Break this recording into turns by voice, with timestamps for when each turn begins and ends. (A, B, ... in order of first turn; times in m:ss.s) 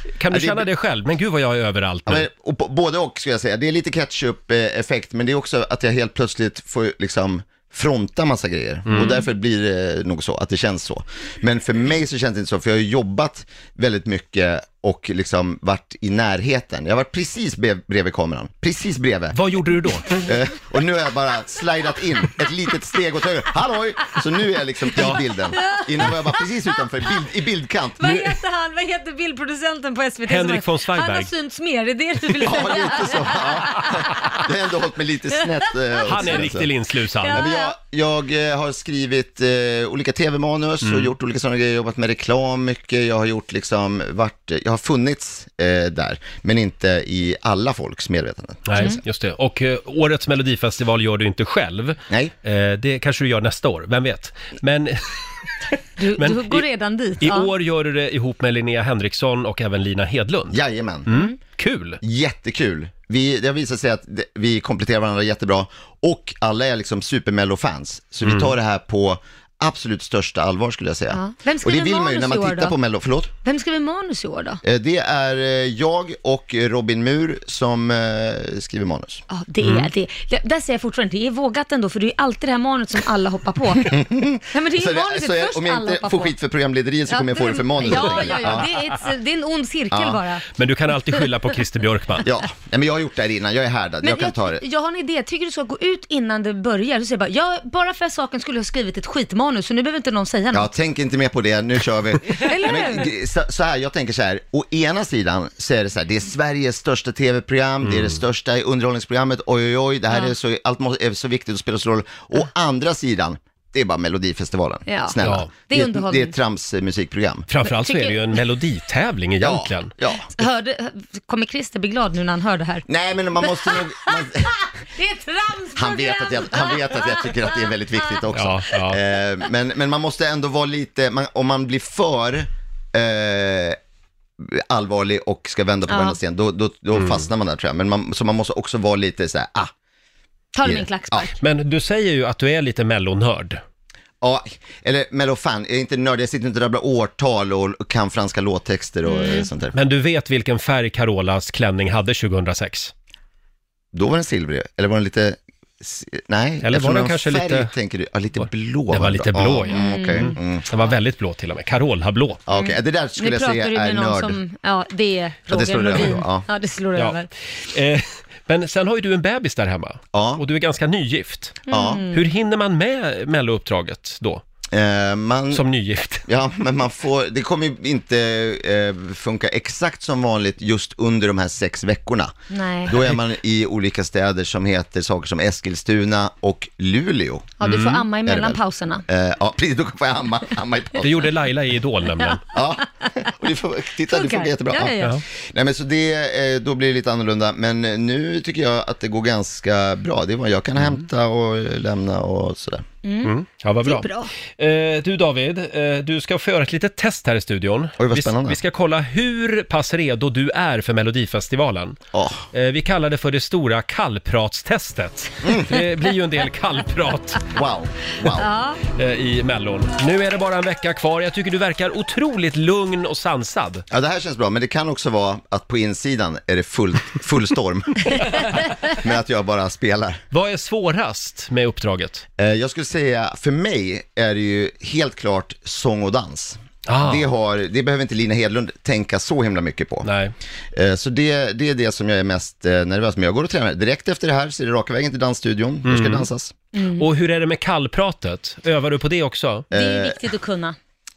0:00.2-0:02.3 A
0:00.3-0:00.7 B
0:02.1-0:19.4 B
0:08.9-0:09.2 A
0:19.3-0:20.1 A
0:20.1-0:28.2 B
0:24.9-0:25.2 A
0:25.6-0:26.1 C
0:28.0-0:33.9 C
0:30.3-0:31.3 A
0:32.3-0:36.7 B
0:36.0-0:37.4 A
0:37.2-0:37.7 C
0:37.2-0:48.9 B
0:40.8-0:41.1 A
0:48.6-0:55.0 A
0:52.1-0:52.3 B
0:56.0-0:57.5 C
0:56.1-0:56.6 A
0:57.2-1:02.0 A
1:00.5-1:01.1 B
1:02.0-1:13.3 B
1:08.2-1:08.5 A
1:11.1-1:12.7 C
1:13.4-1:14.6 C
1:14.6-1:19.2 B
1:19.3-1:24.0 C
1:19.6-1:19.9 A
1:23.9-1:28.7 B
1:24.5-1:26.3 C
1:27.1-1:30.4 C
1:27.9-1:28.5 A
1:29.9-1:30.2 B
1:30.5-1:32.3 A
1:32.2-1:34.6 B
1:34.0-1:40.7 C
1:40.5-1:57.5 B
1:42.4-1:43.1 C
1:47.8-1:48.2 A
1:54.9-1:56.3 C
1:55.2-1:55.5 A
1:57.5-1:59.9 A
1:57.6-1:58.4 C
1:59.4-2:00.3 B
2:00.4-2:02.8 C
2:02.9-2:04.7 B
2:03.4-2:04.2 C
2:05.0-2:07.6 C
2:05.7-2:13.8 B
2:08.3-2:09.0 A
2:14.4-2:19.7 B
2:15.9-2:16.2 C
2:16.9-2:17.2 A
2:20.5-2:21.3 C
2:20.6-2:21.3 B
2:21.4-2:23.6 A
2:24.2-2:29.7 B
2:29.0-2:29.5 C
2:29.7-2:32.9 A
2:33.9-2:40.7 B
2:36.6-2:37.7 A
2:38.4-2:42.4 A
2:39.6-2:40.3 C
2:42.5-2:44.4 B
2:42.5-2:47.3 C
2:45.5-2:46.4 B
2:47.0-2:54.4 A
2:50.1-2:50.4 B
2:51.7-2:52.0 B
2:51.7-2:52.2 C
2:54.7-2:55.6 B
2:55.5-2:56.2 A
2:56.3-3:02.3 B
3:02.5-3:03.0 C
3:02.8-3:07.6 B
3:07.6-3:09.0 C
3:07.6-3:08.0 A
3:08.2-3:11.3 B
3:11.0-3:12.4 A
3:12.5-3:22.8 B
3:14.1-3:15.1 C
3:23.0-3:24.3 C
3:23.2-3:32.0 A
3:28.0-3:28.6 B
3:32.1-3:32.4 B
3:32.5-3:37.5 A
3:35.4-3:35.8 B
3:37.5-3:38.5 B
3:38.4-3:38.8 C
3:38.9-3:43.8 A
3:43.9-3:50.2 B
3:50.3-3:52.2 A
3:52.4-4:00.1 B
3:56.8-3:57.3 A
4:00.0-4:00.3 A
4:00.7-4:06.5 B
4:05.8-4:06.3 A
4:06.7-4:07.0 C
4:07.0-4:09.7 A
4:09.7-4:10.2 B
4:09.7-4:10.8 C